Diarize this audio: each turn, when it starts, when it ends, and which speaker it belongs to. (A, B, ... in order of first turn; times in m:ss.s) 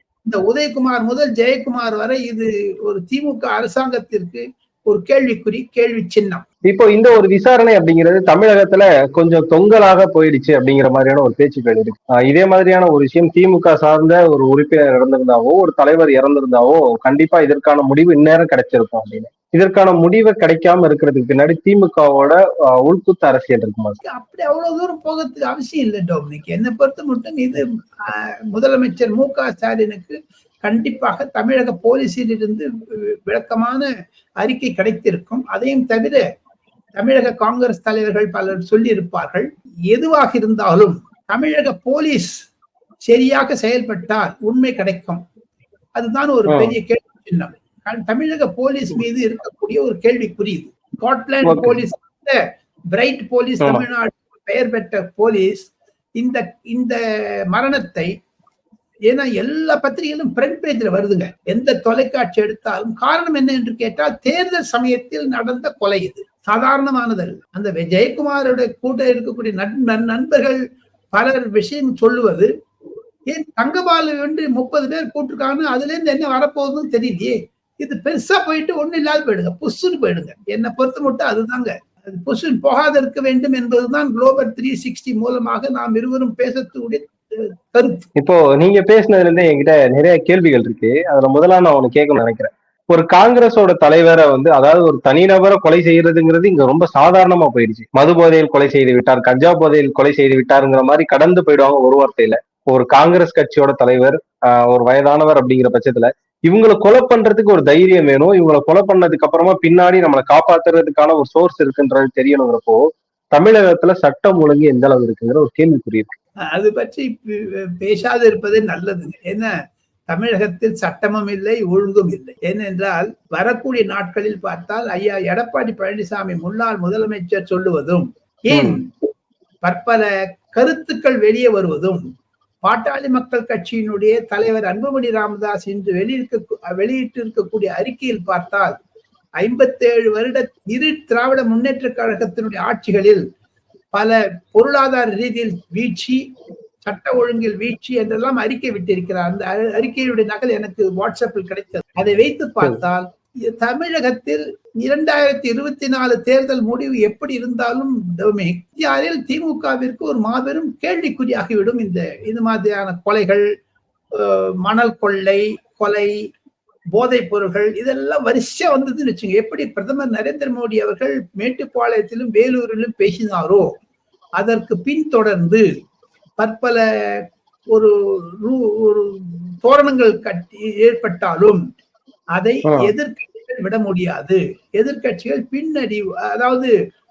0:00.2-0:06.4 A
0:06.6-0:24.0 B
0:24.0-0:32.6 A
0:33.3-0:33.8 A
0:34.4-0:36.2 A
0:37.0-0:42.4 A
0:43.1-0:45.2 A
0:46.0-0:52.4 A
0:46.5-0:46.7 B
0:51.4-0:51.8 B
0:52.9-0:57.0 A
0:57.5-0:58.1 A
0:59.1-1:10.6 A
1:11.1-1:12.5 A
1:13.3-1:28.0 A
1:28.2-1:52.8 B
1:53.3-1:56.2 B
1:56.5-1:59.5 A
2:00.1-2:09.1 A
2:08.5-2:08.8 B
2:09.6-2:12.0 A
2:12.6-2:18.7 A
2:19.4-2:23.2 A
2:23.9-2:26.2 A
2:26.8-2:43.4 A
2:44.2-2:46.1 A
2:47.0-2:53.7 A
2:54.4-2:55.6 A
2:56.4-2:56.8 A
2:57.7-3:01.6 A
3:02.4-3:06.7 A
3:02.7-3:02.9 B